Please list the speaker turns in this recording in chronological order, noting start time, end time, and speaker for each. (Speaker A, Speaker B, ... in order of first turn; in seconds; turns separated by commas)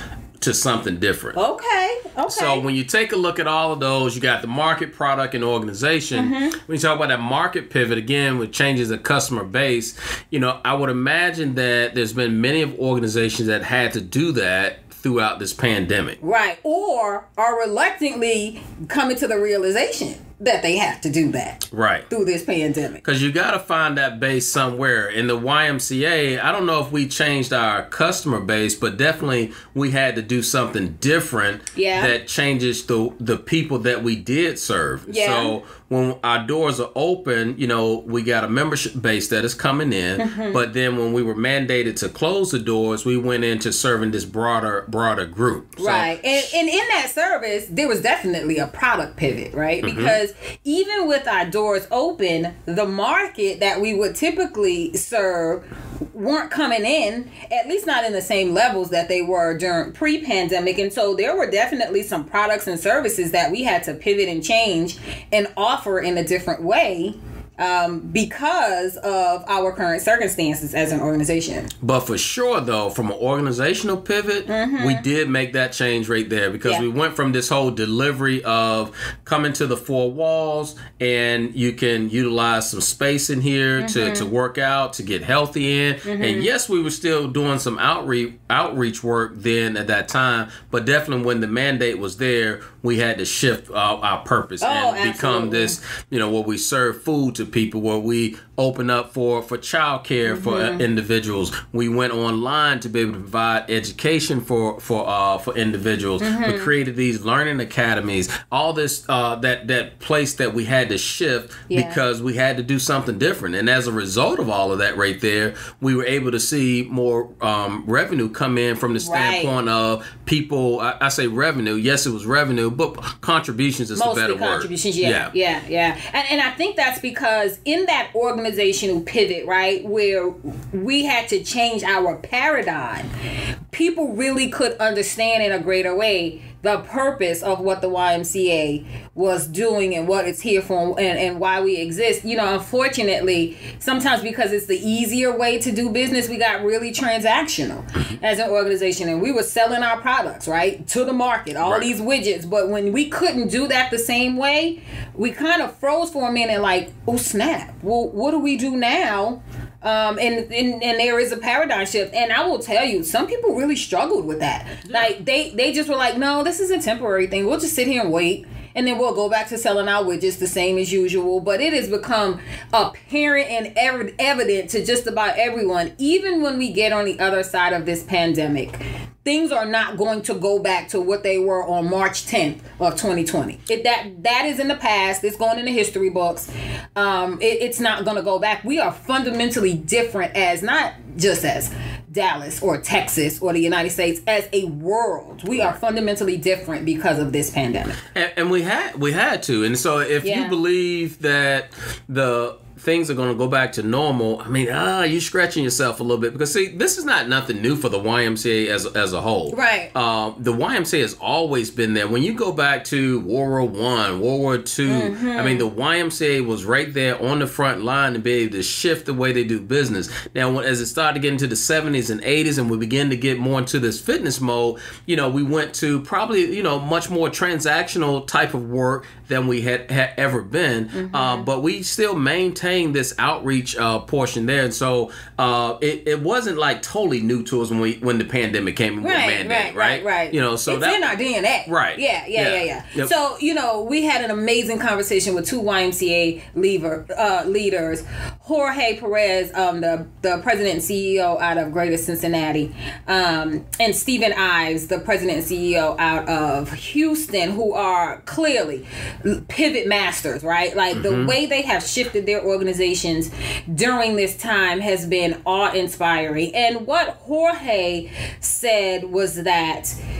Speaker A: 0.4-1.4, Speaker B: 1.4-2.6, Speaker A: 2.3-16.2, Speaker B: 6.1-6.5, Speaker B: 16.2-23.0, Speaker A: 21.7-22.1, Speaker A: 23.0-46.5, Speaker B: 31.8-32.1, Speaker B: 35.1-35.6, Speaker B: 40.2-40.6, Speaker B: 45.8-71.7, Speaker A: 49.8-50.2, Speaker A: 71.8-125.3, Speaker B: 74.5-75.0, Speaker B: 83.8-84.3, Speaker B: 86.0-86.5, Speaker B: 94.6-95.8, Speaker B: 100.3-100.8, Speaker B: 106.2-106.7, Speaker B: 111.7-112.0, Speaker B: 119.0-119.5, Speaker B: 124.0-133.1, Speaker B: 133.7-198.0, Speaker A: 151.6-151.9, Speaker A: 164.8-165.1, Speaker A: 195.5-195.8, Speaker A: 198.1-241.1, Speaker B: 200.2-200.6, Speaker B: 209.5-209.9, Speaker B: 214.8-215.7, Speaker B: 230.9-231.5, Speaker B: 239.0-270.0, Speaker A: 241.7-243.1, Speaker A: 260.9-261.4